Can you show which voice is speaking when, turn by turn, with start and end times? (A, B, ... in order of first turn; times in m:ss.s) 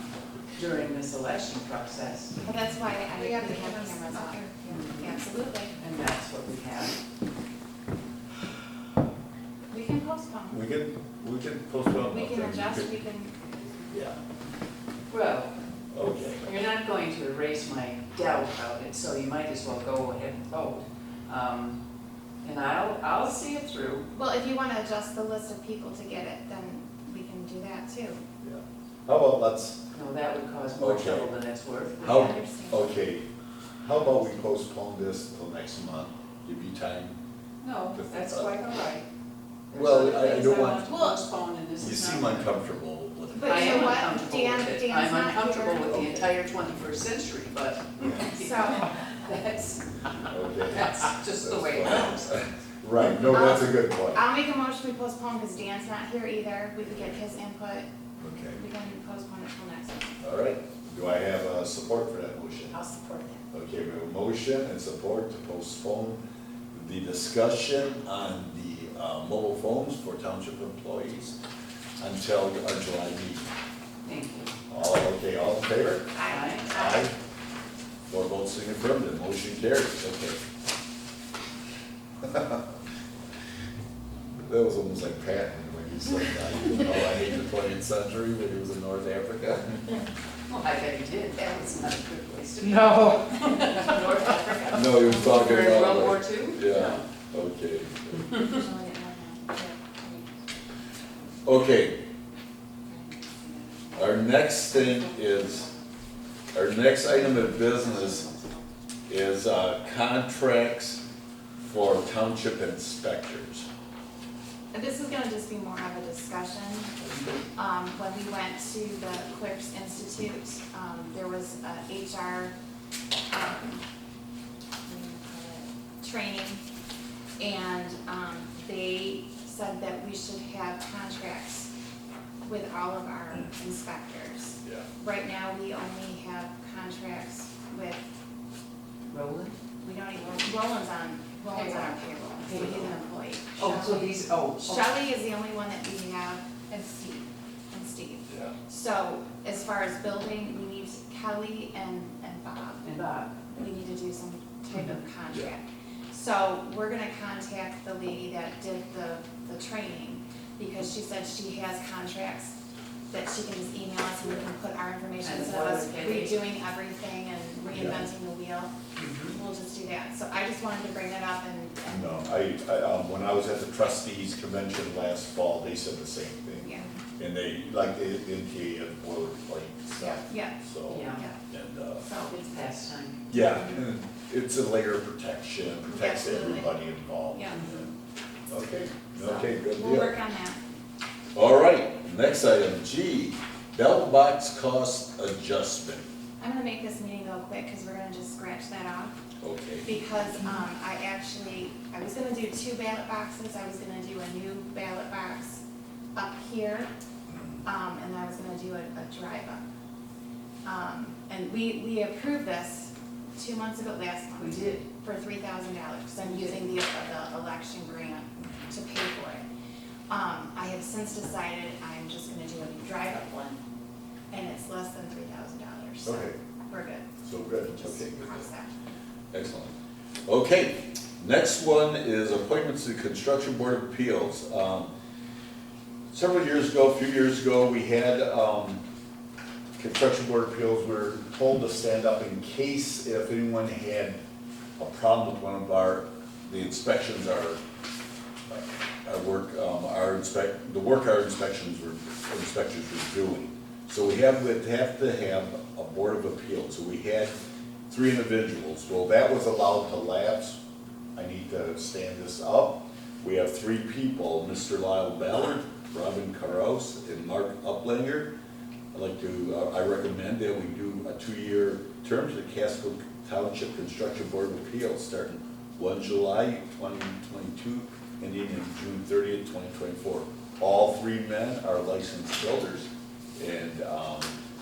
0:00.5-0:02.4 A
0:02.4-0:05.8 B
0:03.0-0:05.0 C
0:04.7-0:05.0 A
0:05.8-0:07.0 A
0:09.7-0:10.6 B
0:10.5-0:12.9 D
0:12.0-0:13.6 B
0:13.9-0:14.2 D
0:15.1-0:15.6 A
0:15.9-0:16.4 D
0:16.4-0:21.8 A
0:22.4-0:24.1 A
0:24.1-0:28.2 B
0:28.4-0:29.8 D
0:29.9-0:32.4 A
0:30.8-0:31.3 D
0:32.0-0:33.0 B
0:32.0-0:33.3 D
0:33.8-0:37.2 D
0:37.6-0:39.1 A
0:38.0-0:38.5 D
0:39.7-0:42.5 A
0:39.7-0:41.1 D
0:41.8-0:44.0 D
0:43.3-0:46.0 B
0:43.4-0:49.9 A
0:48.0-0:48.2 D
0:48.1-0:48.9 B
0:50.3-0:54.2 D
0:50.5-0:52.3 A
0:53.2-0:57.9 B
0:58.2-0:58.6 D
0:58.4-1:00.1 B
1:00.2-1:02.8 D
1:02.7-1:03.4 C
1:03.5-1:06.2 D
1:06.7-1:11.4 D
1:12.0-1:13.5 D
1:14.0-1:14.5 A
1:14.7-1:17.1 D
1:16.2-1:17.1 B
1:16.3-1:16.7 A
1:18.1-1:20.4 D
1:22.2-1:22.6 D
1:24.4-1:30.0 D
1:30.5-1:37.0 A
1:32.8-1:33.2 C
1:33.8-1:35.1 B
1:34.7-1:38.4 D
1:38.4-1:40.4 B
1:41.4-1:42.0 D
1:42.9-1:44.1 B
1:44.0-1:45.7 D
1:46.5-1:48.3 D
1:49.1-1:51.0 D
1:51.6-1:53.7 D
1:54.7-1:57.0 B
1:57.0-1:57.4 D
1:57.6-2:02.5 B
2:03.3-2:03.8 B
2:04.9-2:06.6 B
2:07.4-2:11.7 B
2:12.4-2:18.1 B
2:19.1-2:19.6 A
2:19.8-2:32.8 B
2:21.5-2:23.0 A
2:23.6-2:24.9 A
2:28.3-2:28.6 D
2:32.8-2:33.4 A
2:33.5-2:42.6 B
2:43.1-2:52.1 B
2:45.2-2:46.4 A
2:47.7-2:48.0 D
2:49.0-2:49.4 A
2:51.9-3:02.1 D
2:56.6-2:56.9 B
3:00.0-3:01.4 B
3:00.9-3:01.3 A
3:02.0-3:02.4 B
3:02.3-3:03.4 A
3:03.3-3:07.9 D
3:05.9-3:06.7 B
3:07.3-3:07.7 B
3:07.5-3:07.9 A
3:08.5-3:10.2 D
3:09.2-3:10.6 B
3:11.4-3:16.1 D
3:16.4-3:19.2 B
3:19.4-3:19.9 D
3:19.8-3:25.6 B
3:26.2-3:26.9 B
3:27.3-3:27.6 D
3:27.6-3:29.6 B
3:30.6-3:39.4 B
3:34.4-3:34.9 A
3:36.2-3:36.7 A
3:40.1-3:43.6 B
3:44.3-3:47.1 B
3:46.0-3:46.4 D
3:47.2-3:48.5 D
3:47.7-3:48.7 B
3:49.3-3:49.7 D
3:50.3-3:54.9 D
3:56.1-3:58.8 D
3:59.8-4:04.2 D
4:04.8-4:07.6 D
4:08.5-4:17.3 D
4:17.9-4:20.6 D
4:21.2-4:28.3 D
4:28.9-4:44.4 D